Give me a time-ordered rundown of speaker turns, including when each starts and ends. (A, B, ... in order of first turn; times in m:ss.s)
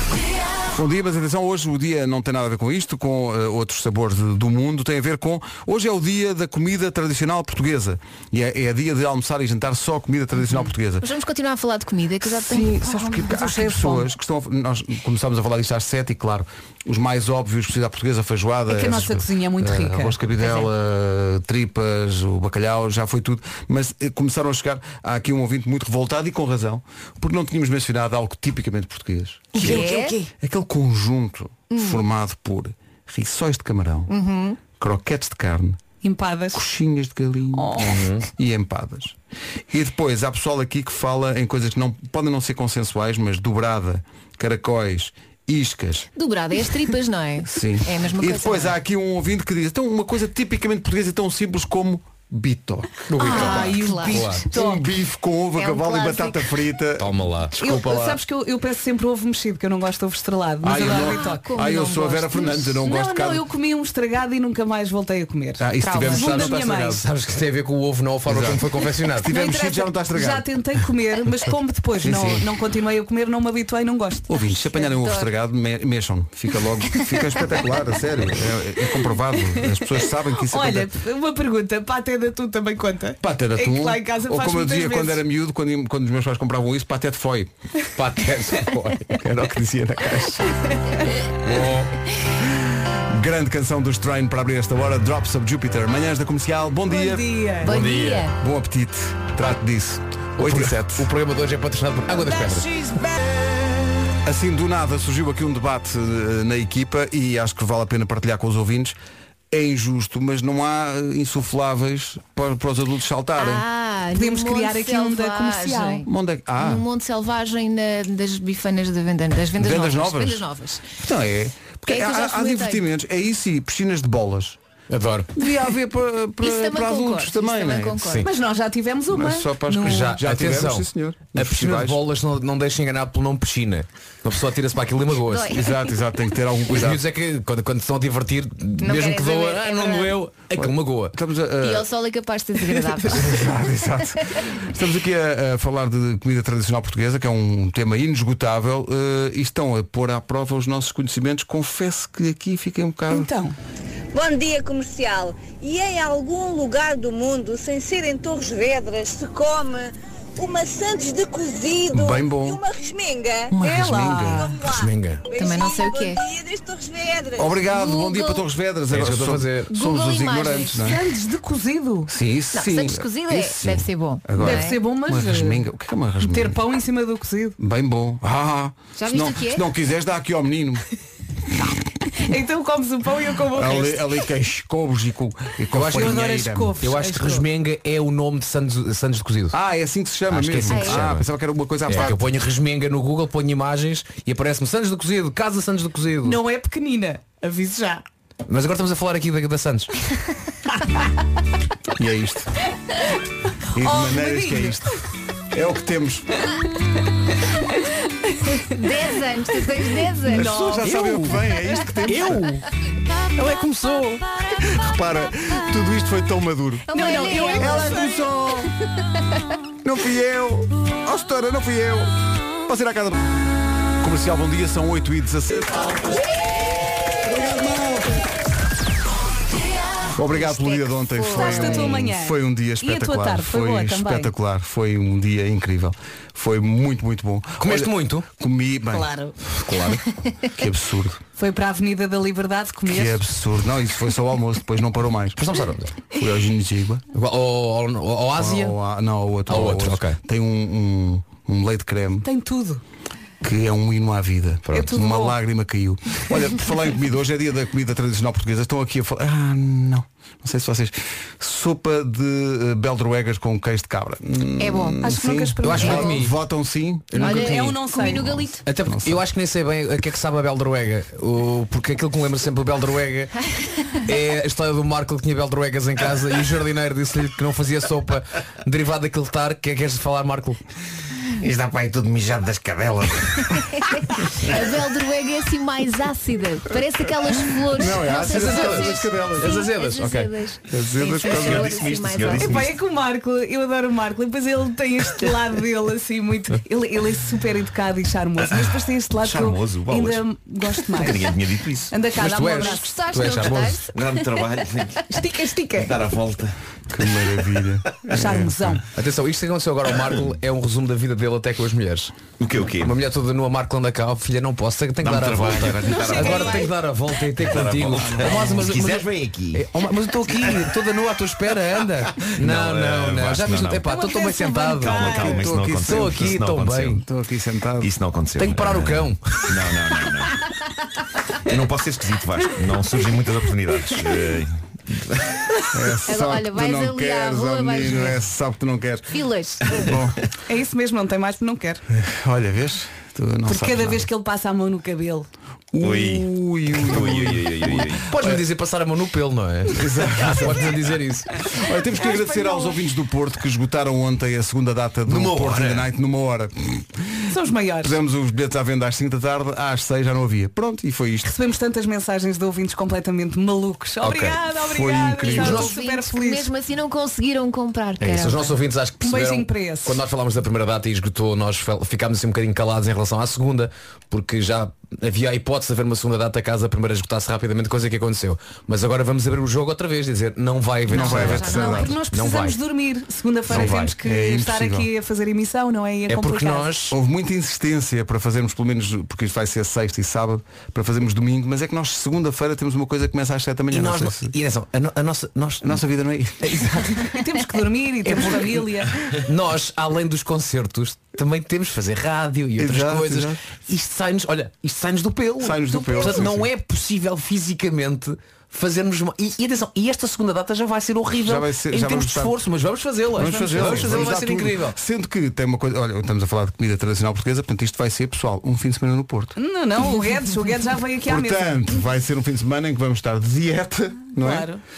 0:00.8-0:11.1 A
0:11.0-0:13.4 B
0:12.2-0:34.1 A
0:13.0-0:14.0 C
0:18.7-0:20.7 C
0:29.5-0:30.3 C
0:29.6-0:30.2 B
0:31.7-0:32.0 B
0:34.1-0:34.6 B
0:34.7-0:35.8 A
0:36.0-0:36.6 C
0:36.5-0:39.2 A
0:37.5-0:38.0 C
0:37.8-0:38.3 D
0:39.7-0:46.1 A
0:46.2-0:48.8 B
0:47.5-0:53.7 A
0:53.1-0:54.4 D
0:53.2-0:54.8 C
0:53.2-0:54.4 B
0:54.5-0:58.2 A
0:55.6-0:56.5 B
0:57.0-0:57.5 D
0:57.6-1:01.5 C
1:00.6-1:03.4 A
1:00.8-1:02.7 B
1:02.8-1:07.0 C
1:05.6-1:07.1 A
1:05.8-1:06.2 B
1:06.0-1:09.3 D
1:08.3-1:10.5 A
1:09.2-1:14.3 C
1:12.0-1:12.5 A
1:14.3-1:20.9 A
1:14.7-1:15.3 B
1:20.4-1:25.2 C
1:23.2-1:27.5 A
1:28.0-1:29.2 D
1:29.2-1:30.5 A
1:30.7-1:31.2 C
1:31.4-1:31.9 D
1:31.5-1:31.8 A
1:32.6-1:37.3 A
1:36.9-1:37.7 C
1:37.6-1:38.4 B
1:37.6-1:38.3 D
1:38.4-1:41.1 A
1:40.4-1:42.7 D
1:44.2-1:49.0 A
1:49.5-1:53.6 A
1:53.4-1:56.1 B
1:54.1-1:56.0 C
1:56.1-1:56.8 A
1:56.6-2:00.9 B
1:59.6-2:00.5 A
2:01.0-2:04.6 A
2:01.9-2:02.8 B
2:04.9-2:05.3 D
2:05.4-2:08.2 A
2:06.4-2:08.3 B
2:08.2-2:10.2 C
2:09.1-2:12.0 A
2:09.8-2:15.5 D
2:15.3-2:15.8 B
2:15.5-2:17.0 A
2:16.7-2:21.2 D
2:18.8-2:20.2 B
2:20.6-2:21.9 A
2:21.6-2:23.5 B
2:23.1-2:33.3 A
2:33.1-2:33.6 C
2:34.1-2:43.6 E
2:41.9-2:42.6 A
2:43.5-2:44.5 A
2:43.6-2:44.6 C
2:44.2-2:47.6 E
2:44.7-2:45.2 D
2:45.4-2:46.2 B
2:47.4-2:51.0 A
2:47.6-2:48.4 B
2:48.9-2:49.7 D
2:49.7-2:50.9 B
2:50.8-2:52.1 C
2:52.1-2:56.6 A
2:52.5-2:54.8 B
2:54.4-2:55.6 C
2:56.2-2:57.6 C
2:57.6-3:00.8 A
2:59.0-2:59.7 B
3:02.1-3:04.0 C
3:03.5-3:06.8 A
3:05.7-3:06.2 D
3:05.9-3:07.5 C
3:06.8-3:09.6 D
3:09.5-3:12.2 A
3:10.3-3:11.3 D
3:10.7-3:11.1 B
3:11.9-3:16.4 D
3:16.2-3:18.0 C
3:18.5-3:19.9 D
3:22.0-3:22.5 A
3:23.7-3:25.0 A
3:23.8-3:24.8 C
3:25.5-3:26.3 A
3:27.3-3:28.8 C
3:28.7-3:30.7 B
3:30.3-3:32.6 C
3:30.3-3:32.5 A
3:30.8-3:31.2 D
3:33.4-3:34.2 C
3:34.6-3:36.9 A
3:36.9-3:38.0 B
3:36.9-3:38.2 C
3:37.5-3:38.7 A
3:39.8-3:42.1 A
3:42.7-3:43.2 A
3:44.0-3:46.2 A
3:47.2-3:48.2 A
3:50.2-3:59.1 A
3:50.4-3:52.0 B
3:51.3-3:54.3 C
3:57.6-3:58.3 D
3:58.9-3:59.3 C
3:59.7-4:00.0 D
4:00.5-4:01.2 A
4:01.4-4:03.2 C
4:02.9-4:05.5 A
4:05.4-4:06.0 D
4:06.1-4:07.0 A
4:07.1-4:08.8 D
4:08.4-4:12.3 A
4:09.5-4:10.2 D
4:12.2-4:12.8 C
4:13.4-4:27.4 A
4:14.7-4:15.4 C
4:24.6-4:25.0 B
4:25.0-4:26.2 C
4:25.6-4:26.4 D
4:27.1-4:27.8 D
4:27.2-4:28.5 C
4:27.2-4:28.6 B
4:28.7-4:40.6 D
4:28.8-4:29.2 A
4:41.4-4:43.4 F
4:43.5-4:52.6 B
4:47.7-4:49.7 A
4:48.1-4:50.3 D
4:50.7-4:52.3 A
4:51.2-4:52.7 F
4:52.3-5:01.3 C
4:59.2-5:00.2 F
5:00.9-5:01.9 F
5:01.9-5:02.9 C
5:02.2-5:03.8 D
5:02.5-5:04.5 B
5:03.9-5:05.0 F
5:05.1-5:05.9 C
5:05.7-5:06.5 F
5:06.9-5:08.8 A
5:08.1-5:08.8 C
5:08.9-5:12.1 D
5:10.0-5:10.2 F
5:12.4-5:13.0 F
5:12.8-5:27.0 D
5:15.0-5:16.7 F
5:16.0-5:16.7 C
5:16.1-5:16.5 B
5:17.4-5:19.6 F
5:18.0-5:18.8 A
5:20.4-5:20.7 F
5:22.2-5:23.9 F
5:23.9-5:25.4 C
5:24.8-5:27.0 F
5:25.0-5:27.9 A
5:27.8-5:30.4 F
5:28.4-5:29.5 D
5:31.4-5:35.3 F
5:35.7-5:40.2 A
5:36.0-5:38.2 B
5:39.1-5:39.9 B
5:40.5-5:41.8 C
5:41.9-5:44.1 A
5:43.5-5:45.3 C
5:45.7-5:48.4 A
5:45.8-5:48.1 F
5:48.1-5:51.3 D
5:49.7-5:50.8 A
5:51.5-5:57.0 A
5:52.0-5:52.8 C
5:55.1-5:55.9 F
5:57.3-5:58.0 C
5:57.8-6:01.3 A
6:01.2-6:06.5 C
6:04.0-6:04.4 D
6:04.6-6:05.7 A
6:05.4-6:08.6 B
6:05.4-6:05.7 D
6:08.0-6:22.6 D
6:09.0-6:10.0 C
6:20.9-6:21.9 A
6:20.9-6:22.0 B
6:21.0-6:26.7 C
6:23.5-6:23.9 D
6:23.5-6:24.9 A
6:26.1-6:27.0 D
6:26.9-6:34.4 A
6:33.7-6:35.8 D
6:35.6-6:36.6 A
6:36.4-6:37.1 D
6:36.9-6:38.9 C
6:38.1-6:54.8 D
6:42.6-6:43.4 A
6:45.4-6:46.5 A
6:45.7-6:46.2 C
6:51.2-6:52.4 A
6:53.2-6:59.4 A
6:53.2-6:54.1 C
6:59.4-7:01.7 C
7:01.0-7:04.5 A
7:04.2-7:04.6 C